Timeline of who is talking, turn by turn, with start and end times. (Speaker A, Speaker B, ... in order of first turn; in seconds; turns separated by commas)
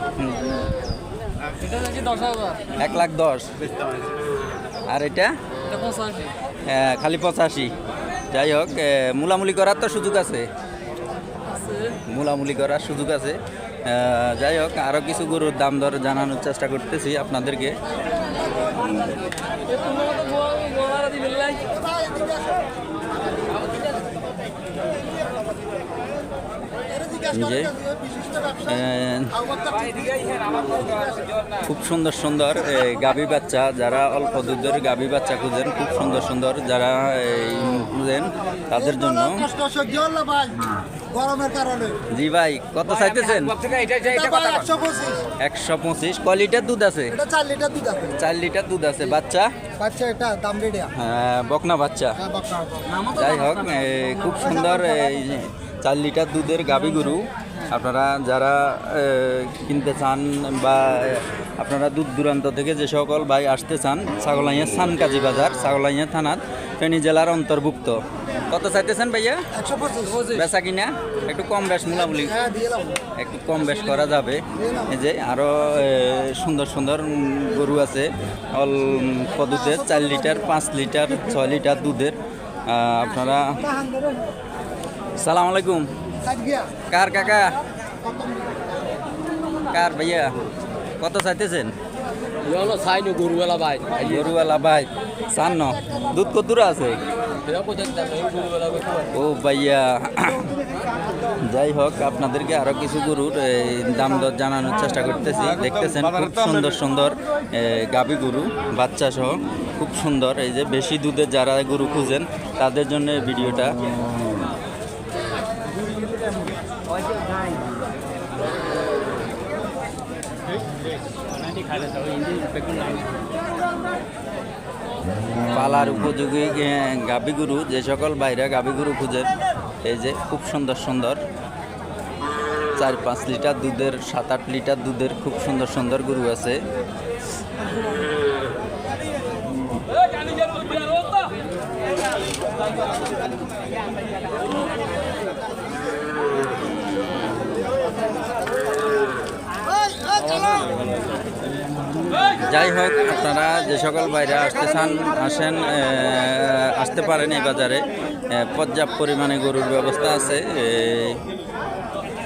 Speaker A: 0.2-0.5, Speaker B: 1.5-2.6, Speaker A: 2.8-3.5, Speaker A: 4.9-5.3, Speaker B: 5.7-6.3, Speaker A: 6.7-7.7, Speaker A: 8.3-10.5, Speaker B: 11.5-11.9, Speaker A: 11.9-17.8, Speaker B: 19.7-21.7, Speaker C: 21.6-22.4, Speaker C: 27.0-28.6, Speaker A: 27.3-27.8, Speaker A: 28.6-29.5, Speaker C: 29.5-31.1, Speaker A: 31.6-39.5, Speaker C: 39.3-42.0, Speaker A: 42.1-43.6, Speaker B: 43.4-44.5, Speaker C: 44.1-45.2, Speaker A: 45.4-47.2, Speaker C: 47.2-48.1, Speaker A: 48.1-49.5, Speaker C: 49.8-50.9, Speaker A: 50.9-52.2, Speaker C: 52.3-53.0, Speaker A: 53.0-69.5, Speaker C: 69.6-70.3, Speaker A: 70.2-72.5, Speaker C: 72.4-73.0, Speaker A: 73.2-83.7, Speaker C: 83.7-84.2, Speaker A: 85.2-85.9, Speaker C: 86.3-86.7, Speaker A: 86.9-87.6, Speaker C: 88.1-88.5, Speaker A: 89.7-90.3, Speaker A: 91.0-91.7, Speaker B: 92.4-94.0, Speaker A: 93.9-97.0, Speaker B: 97.5-99.0, Speaker A: 99.1-100.5, Speaker A: 101.3-113.8, Speaker B: 121.6-123.0, Speaker A: 125.5-129.3, Speaker A: 129.8-131.2, Speaker A: 132.8-136.6, Speaker B: 150.3-150.6, Speaker A: 152.4-161.2